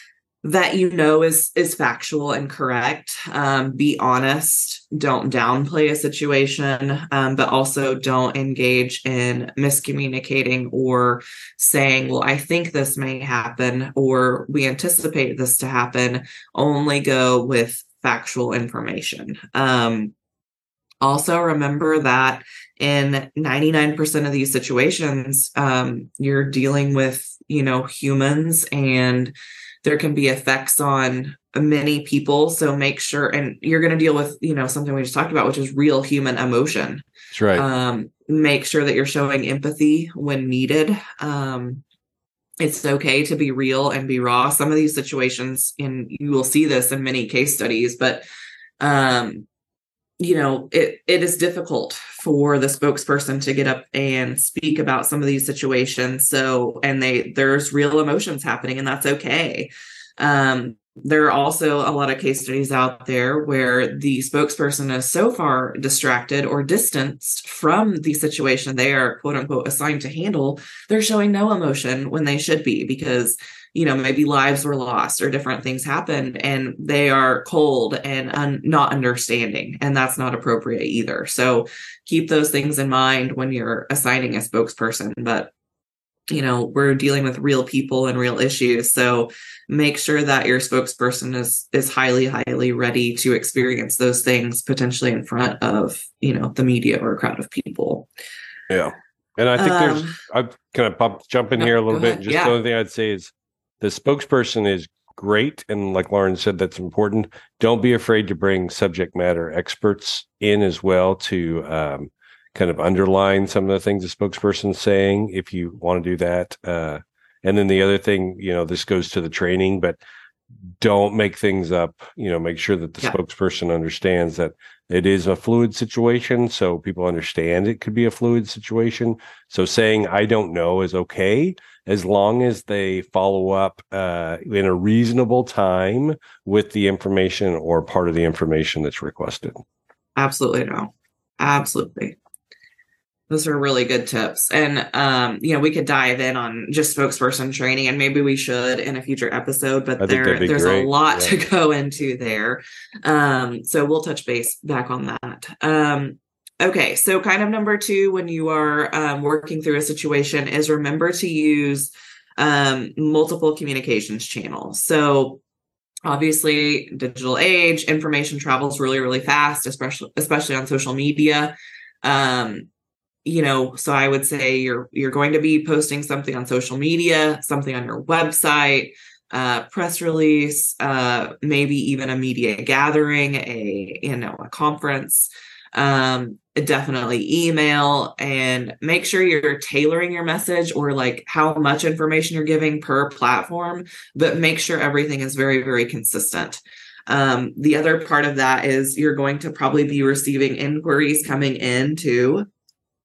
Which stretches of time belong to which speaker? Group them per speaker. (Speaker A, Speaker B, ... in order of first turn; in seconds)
Speaker A: 0.4-20.1, 21.0-41.8, 42.6-48.2, 48.8-49.5, 50.2-85.5, 86.3-98.1, 99.5-100.2, 101.5-102.6, 140.2-142.2, 143.3-165.4, 166.1-172.7, 173.2-202.4
Speaker B: 37.3-37.6, 98.7-120.0, 120.8-139.6, 150.0-151.4